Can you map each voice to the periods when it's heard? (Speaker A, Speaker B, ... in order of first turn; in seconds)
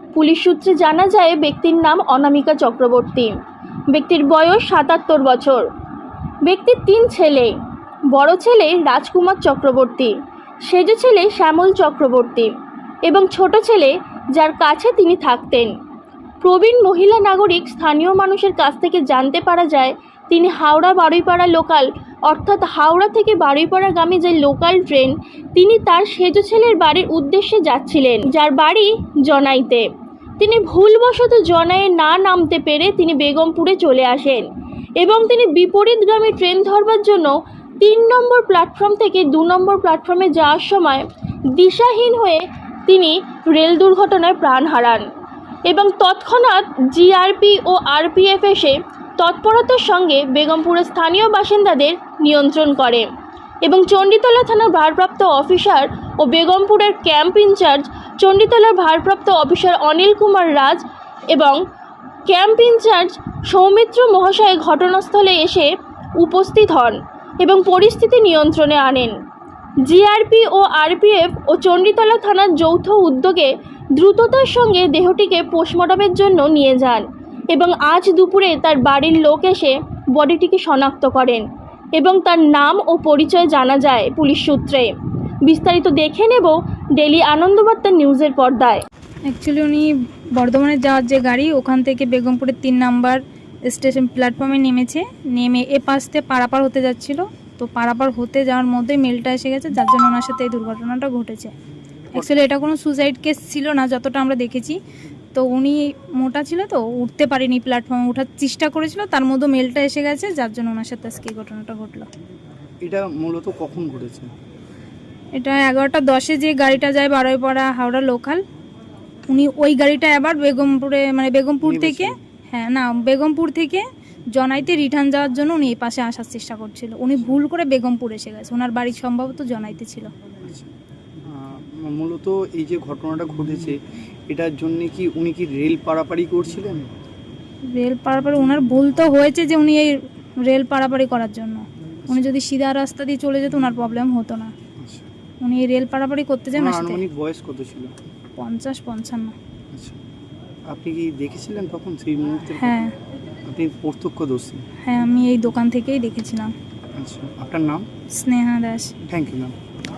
Speaker A: 0.1-3.3, 3.9-5.6, 6.4-7.5, 8.1-10.1, 10.7-12.5, 13.0-15.7, 16.4-29.9, 30.4-34.4, 35.0-45.0, 45.6-53.1, 53.6-61.6, 62.3-69.1, 69.8-81.4, 82.0-84.9, 85.5-88.8
Speaker B: 89.3-101.5, 102.1-104.8, 105.3-112.1, 115.3-118.4, 119.3-130.1, 137.7-144.5, 145.4-147.0, 148.4-149.3, 152.5-152.9, 154.8-156.5, 158.1-158.9
Speaker C: 112.8-114.3, 121.6-122.2, 130.4-130.7, 131.3-136.9, 144.8-145.1, 146.5-147.9, 149.7-150.0, 150.7-152.9, 153.4-154.7, 156.9-157.9, 159.1-159.5